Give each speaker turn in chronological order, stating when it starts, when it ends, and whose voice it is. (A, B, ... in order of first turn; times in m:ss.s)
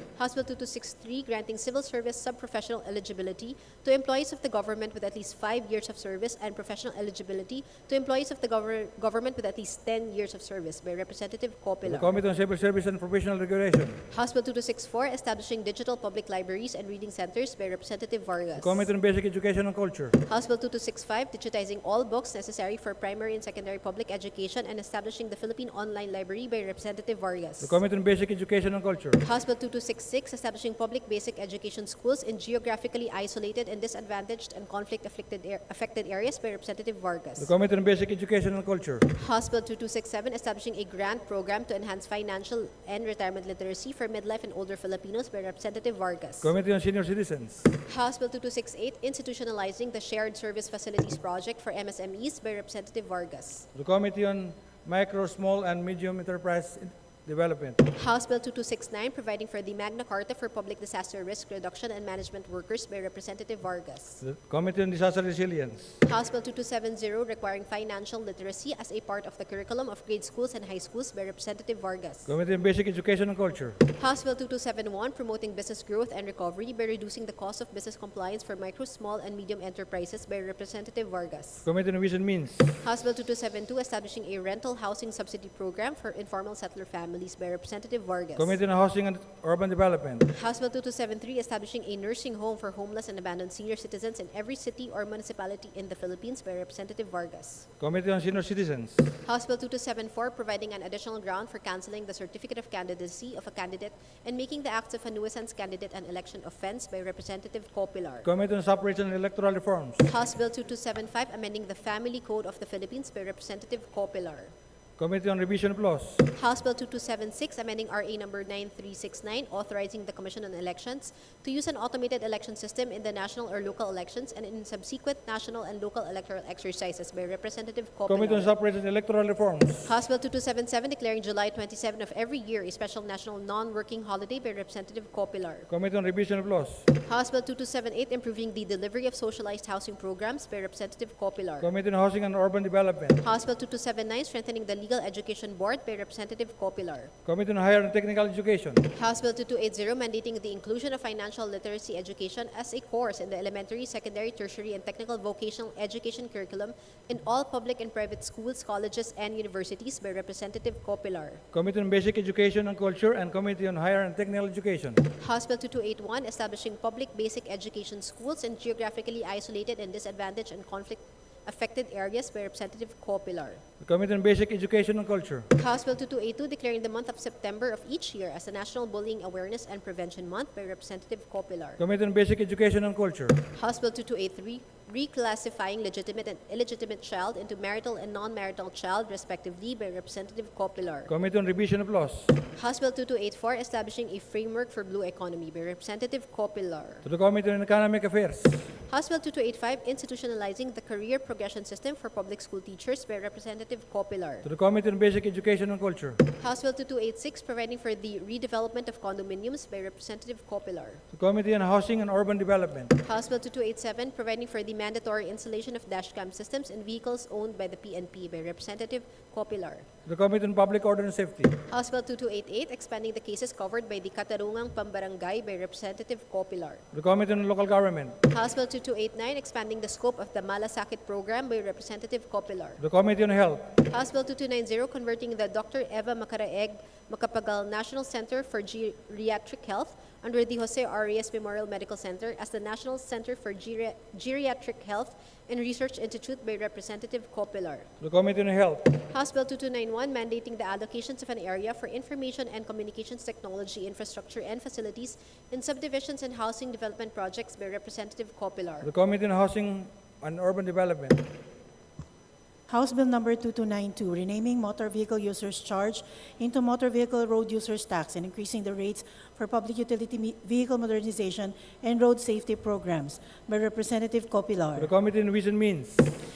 0:00.2-0:12.1 A
0:11.8-0:14.0 B
0:14.1-0:18.9 A
0:18.6-0:20.1 B
0:20.2-0:27.8 A
0:27.6-0:29.2 B
0:29.2-0:37.5 A
0:37.4-0:39.0 B
0:39.1-0:46.5 A
0:46.4-0:47.7 B
0:47.9-0:53.7 A
0:53.7-0:57.8 B
0:58.0-1:04.2 A
1:04.2-1:06.0 B
1:06.0-1:12.3 A
1:12.2-1:13.8 B
1:14.0-1:21.7 A
1:21.6-1:22.8 B
1:22.8-1:28.6 A
1:28.4-1:30.3 B
1:30.3-1:37.7 A
1:37.8-1:39.1 B
1:39.2-1:48.3 A
1:48.2-1:50.1 B
1:50.0-1:54.5 A
1:55.0-1:56.2 B
1:56.3-2:08.5 A
2:08.1-2:09.9 B
2:09.8-2:15.7 A
2:15.7-2:16.9 B
2:17.0-2:21.7 A
2:21.6-2:23.2 B
2:23.2-2:27.1 A
2:27.2-2:28.8 B
2:28.9-2:41.4 A
2:41.5-2:45.0 B
2:45.2-2:53.6 A
2:53.8-2:55.5 B
2:55.6-3:01.8 A
3:01.8-3:03.4 B
3:03.5-3:11.1 A
3:11.1-3:12.3 B
3:12.5-3:17.0 A
3:17.0-3:18.7 B
3:18.9-3:24.4 A
3:24.4-3:26.2 B
3:26.4-3:31.0 A
3:31.1-3:32.9 B
3:33.0-3:39.8 A
3:40.0-3:41.5 B
3:41.7-3:46.8 A
3:46.9-3:48.2 B
3:48.3-3:52.8 A
3:52.8-3:53.6 B
3:53.9-4:07.9 A
4:08.0-4:08.9 B
4:09.1-4:18.9 A
4:18.8-4:21.2 B
4:22.7-4:34.9 C
4:34.8-4:36.1 B